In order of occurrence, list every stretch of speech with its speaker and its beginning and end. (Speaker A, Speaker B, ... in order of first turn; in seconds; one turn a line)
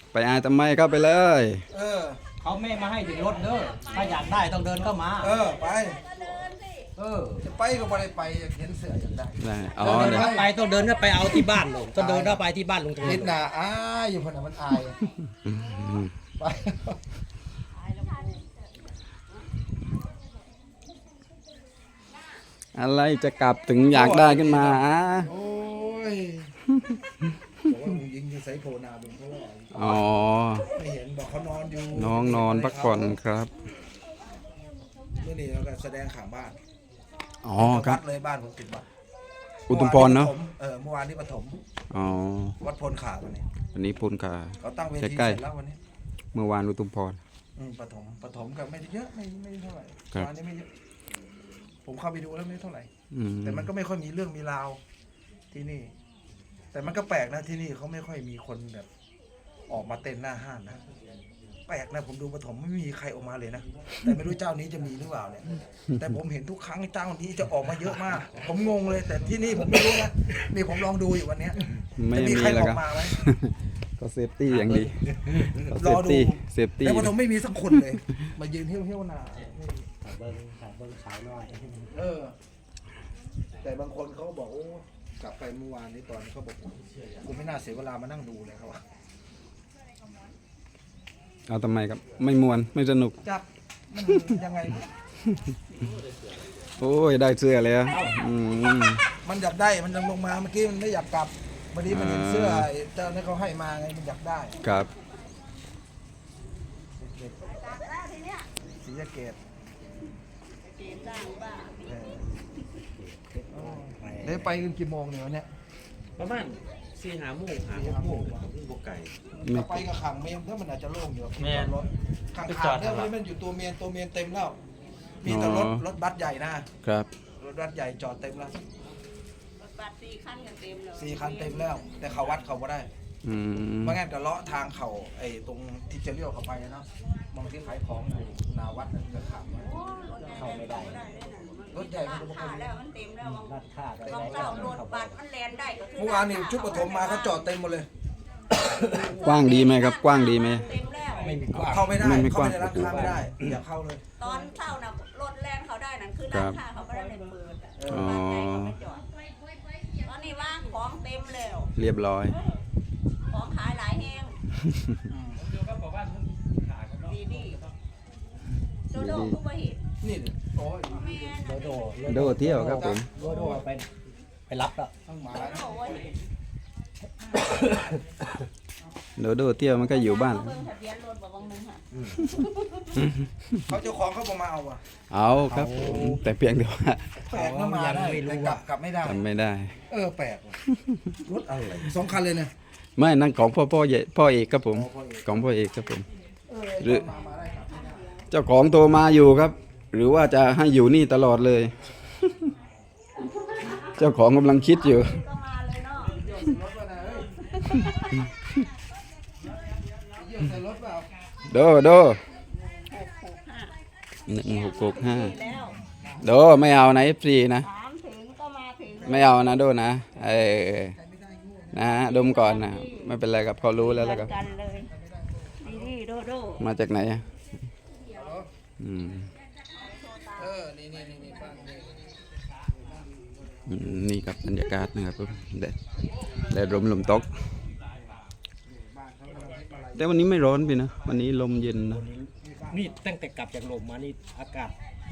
Speaker A: 0.1-1.7
Speaker B: 1.7-2.2
Speaker C: 2.4-5.4
Speaker B: 5.2-6.0
Speaker D: 6.2-6.6
Speaker C: 7.0-7.4
Speaker B: 7.4-10.5
Speaker A: 9.4-10.3
Speaker C: 9.8-13.4
Speaker B: 11.9-12.4
Speaker B: 13.0-15.0
Speaker A: 15.5-16.1
Speaker B: 16.4-17.0
Speaker A: 22.7-25.3
Speaker B: 23.9-26.5
Speaker B: 27.6-30.0
Speaker A: 29.7-30.7
Speaker B: 30.7-33.2
Speaker A: 31.9-33.5
Speaker B: 35.2-36.6
Speaker A: 37.4-38.0
Speaker B: 37.6-38.9
Speaker A: 39.7-40.4
Speaker B: 39.7-41.6
Speaker A: 41.9-42.6
Speaker B: 42.6-43.5
Speaker A: 43.7-45.4
Speaker B: 44.6-45.8
Speaker A: 46.3-47.2
Speaker B: 47.6-50.7
Speaker B: 51.9-52.9
Speaker A: 53.1-53.7
Speaker B: 53.4-54.8
Speaker B: 55.5-55.9
Speaker B: 56.7-58.9
Speaker B: 59.7-60.8
Speaker B: 61.7-73.2
Speaker A: 72.0-77.1
Speaker B: 74.6-79.8
Speaker C: 80.0-81.6
Speaker B: 81.9-82.3
Speaker B: 83.6-88.8
Speaker A: 91.5-93.2
Speaker B: 93.2-94.9
Speaker A: 96.8-99.0
Speaker C: 97.9-98.2
Speaker B: 99.2-104.6
Speaker A: 101.9-102.7
Speaker A: 104.6-104.9
Speaker B: 107.0-107.7
Speaker D: 107.5-108.5
Speaker B: 108.8-109.4
Speaker D: 110.7-111.9
Speaker B: 111.9-112.3
Speaker C: 112.9-114.6
Speaker B: 113.5-115.5
Speaker E: 116.2-119.1
Speaker B: 117.7-118.5
Speaker A: 119.4-119.9
Speaker B: 119.4-124.6
Speaker E: 121.4-121.7
Speaker E: 122.5-123.1
Speaker B: 125.2-126.7
Speaker A: 125.3-125.8
Speaker B: 127.4-128.6
Speaker D: 129.6-131.7
Speaker B: 130.9-132.9
Speaker A: 133.2-134.0
Speaker B: 133.8-139.7
Speaker D: 139.6-143.5
Speaker C: 140.3-141.0
Speaker B: 141.7-142.8
Speaker C: 143.3-145.2
Speaker D: 144.1-147.5
Speaker B: 144.1-144.8
Speaker B: 146.0-147.9
Speaker C: 148.6-149.1
Speaker D: 149.0-151.3
Speaker A: 149.1-150.7
Speaker C: 151.2-152.1
Speaker B: 151.5-154.0
Speaker A: 151.9-153.2
Speaker C: 152.8-153.4
Speaker D: 154.2-159.1
Speaker A: 156.3-156.6
Speaker B: 157.8-158.1
Speaker A: 157.9-158.8
Speaker D: 160.0-161.7
Speaker A: 161.8-162.4
Speaker D: 162.3-162.6
Speaker D: 163.3-164.4
Speaker B: 165.1-165.4
Speaker E: 165.5-167.0
Speaker D: 167.1-167.6
Speaker D: 168.9-169.8
Speaker A: 168.9-169.4
Speaker B: 170.0-171.4
Speaker D: 170.9-171.8
Speaker C: 171.4-173.9
Speaker A: 172.1-173.1
Speaker B: 172.4-173.6
Speaker C: 174.5-174.9
Speaker B: 175.1-175.7
Speaker D: 175.3-176.1
Speaker C: 177.5-178.0
Speaker A: 179.2-180.6
Speaker D: 179.8-182.9
Speaker A: 183.0-183.5
Speaker B: 183.7-184.8
Speaker A: 185.1-187.1
Speaker C: 185.5-186.2
Speaker C: 187.3-188.6
Speaker B: 187.3-189.2
Speaker A: 189.0-189.8
Speaker B: 189.9-190.6
Speaker B: 191.3-192.5
Speaker A: 193.0-196.1
Speaker B: 194.7-195.4
Speaker D: 196.5-197.0
Speaker B: 196.7-198.1
Speaker A: 196.8-197.1
Speaker D: 197.9-198.2
Speaker A: 198.3-202.5
Speaker A: 203.9-205.2
Speaker D: 204.7-206.2
Speaker B: 206.1-207.3
Speaker D: 207.7-208.1
Speaker B: 210.2-211.1
Speaker A: 211.5-212.2
Speaker D: 212.9-213.8
Speaker A: 214.3-215.4
Speaker D: 214.4-215.8
Speaker B: 216.0-216.3
Speaker A: 216.2-217.7
Speaker D: 217.6-219.4
Speaker B: 219.0-219.6
Speaker A: 219.0-221.0
Speaker B: 220.9-221.9
Speaker A: 221.7-224.3
Speaker D: 222.2-223.1
Speaker D: 223.8-224.9
Speaker B: 224.8-225.9
Speaker D: 225.6-226.6
Speaker A: 226.6-227.3
Speaker B: 228.2-228.5
Speaker A: 228.8-229.3
Speaker D: 229.8-230.6
Speaker B: 230.4-232.1
Speaker A: 233.7-235.8
Speaker A: 236.5-237.4
Speaker B: 238.7-240.2
Speaker A: 239.9-242.1
Speaker C: 241.9-244.8
Speaker B: 242.5-242.7